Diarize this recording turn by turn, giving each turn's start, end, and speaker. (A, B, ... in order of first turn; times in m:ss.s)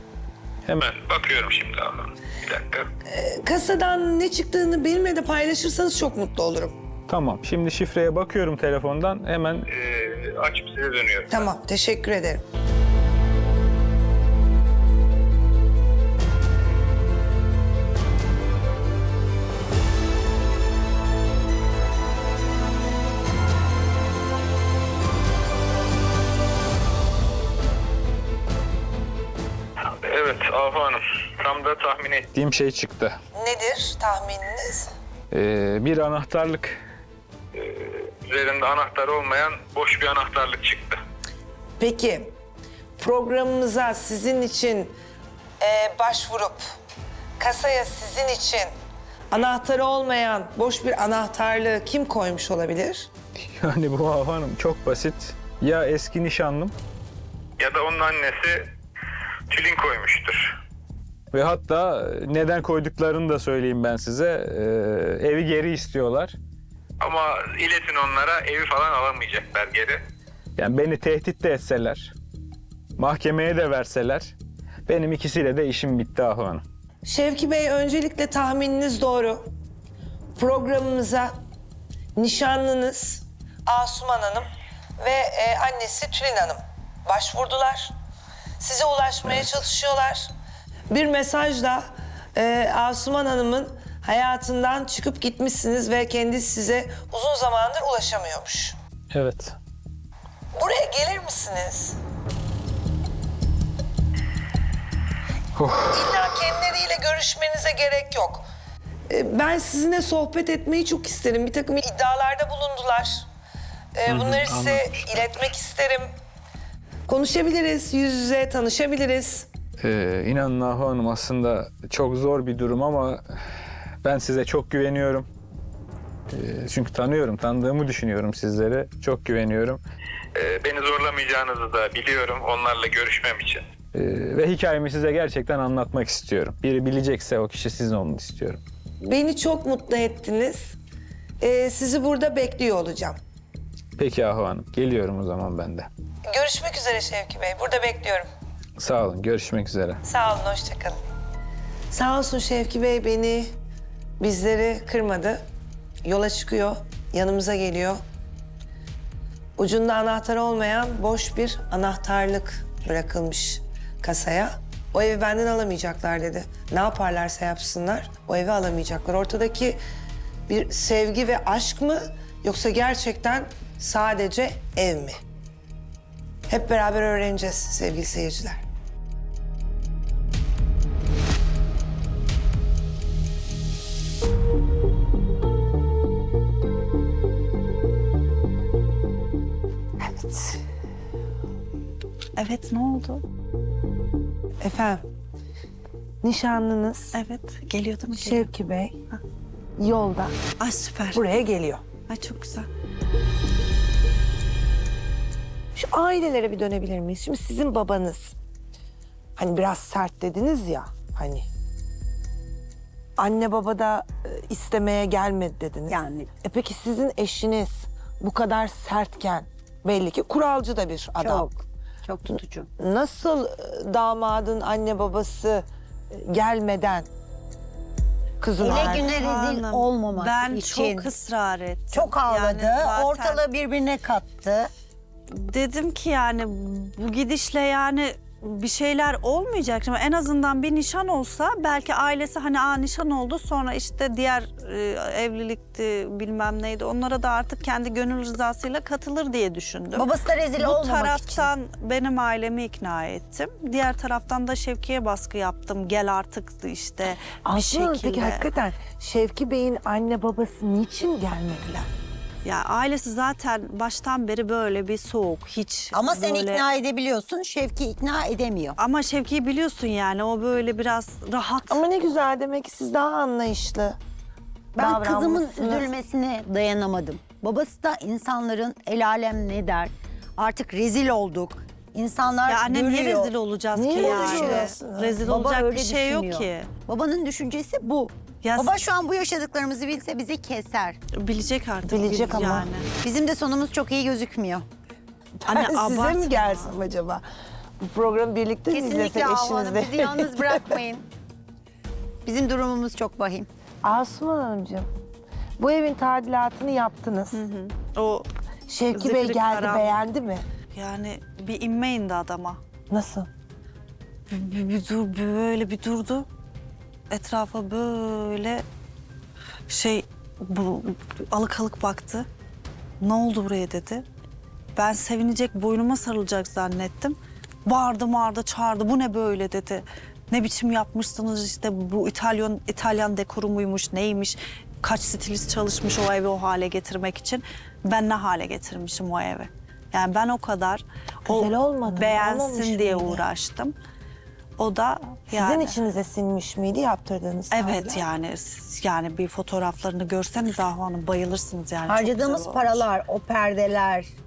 0:00.8-0:02.9 A
0:03.1-0:06.8 B
0:07.1-0:09.7 C
0:09.7-0:11.4 A
0:11.3-0:12.4 B
0:29.9-0:32.3 A
0:32.3-0:33.2 C
0:33.4-0:34.9 B
0:35.3-0:36.8 C
0:37.5-0:41.0 A
0:41.8-0:42.4 B
0:43.0-0:45.0 B
0:45.6-0:46.8 B
0:47.4-0:48.7 B
0:49.3-0:53.1 B
0:53.4-0:56.7 C
0:57.6-0:58.7 A
0:59.5-1:00.6 A
1:01.3-1:06.4 C
1:07.0-1:10.0 A
1:10.6-1:12.1 C
1:13.0-1:14.3 C
1:14.9-1:16.6 C
1:17.0-1:19.5 B
1:20.4-1:21.3 B
1:22.2-1:24.5 B
1:25.0-1:28.0 B
1:28.6-1:30.3 B
1:30.9-1:38.8 B
1:39.1-1:39.6 C
1:40.6-1:42.0 B
1:45.6-1:46.1 C
1:45.9-1:48.4 B
1:49.1-1:53.3 B
1:54.0-1:56.1 B
1:54.1-1:54.8 C
1:57.1-1:59.5 B
1:59.8-2:05.3 C
2:06.3-2:09.8 C
2:10.4-2:13.7 A
2:13.9-2:18.6 C
2:19.0-2:20.8 B
2:21.4-2:23.2 B
2:24.0-2:25.9 C
2:26.3-2:28.3 B
2:28.8-2:30.0 C
2:30.0-2:31.0 B
2:31.9-2:33.6 B
2:34.2-2:35.4 B
2:36.0-2:38.0 B
2:39.6-2:49.8 B
2:50.5-2:55.2 B
2:56.5-2:58.6 B
3:10.0-3:10.6 B
3:12.4-3:13.2 D
3:14.6-3:15.0 B
3:16.2-3:17.2 B
3:17.1-3:18.5 D
3:18.1-3:19.0 B
3:19.8-3:20.4 B
3:20.6-3:21.2 D
3:21.1-3:21.8 B
3:22.1-3:22.7 D
3:25.7-3:28.4 B
3:29.4-3:31.5 B
3:33.2-3:41.5 B
3:35.9-3:36.3 E
3:41.2-3:42.7 E
3:42.8-3:47.1 B
3:48.4-3:49.1 B
3:48.6-3:51.1 E
3:48.6-3:53.4 D
3:51.9-3:54.7 E
3:55.3-4:18.5 D
4:10.0-4:11.5 E
4:17.4-4:21.9 B
4:22.4-4:26.7 D
4:25.9-4:28.8 E
4:28.8-4:31.9 D
4:31.7-4:34.0 B
4:34.8-4:35.9 B
4:34.8-4:43.3 E
4:42.5-4:46.7 D
4:43.8-4:45.2 B
4:43.9-4:44.7 E
4:45.2-4:51.0 E
4:48.4-4:48.8 D
4:51.1-4:52.9 D
4:51.8-4:52.7 B
4:53.0-4:54.7 E
4:55.4-4:57.2 B
4:55.5-4:56.8 D
4:57.8-5:00.8 B
4:58.7-5:01.0 E
5:02.2-5:03.5 E
5:03.8-5:04.9 B
5:05.6-5:07.4 B
5:07.3-5:08.3 D
5:08.7-5:10.4 B
5:08.9-5:10.0 D
5:10.7-5:12.6 D
5:12.9-5:13.3 B
5:14.3-5:16.3 D
5:17.1-5:18.6 D
5:19.7-5:22.3 D
5:23.0-5:24.0 D
5:24.8-5:43.8 D
5:41.3-5:43.2 B
5:44.6-5:45.8 D
5:45.3-5:48.1 B
5:47.5-5:52.8 D
5:51.9-5:54.1 E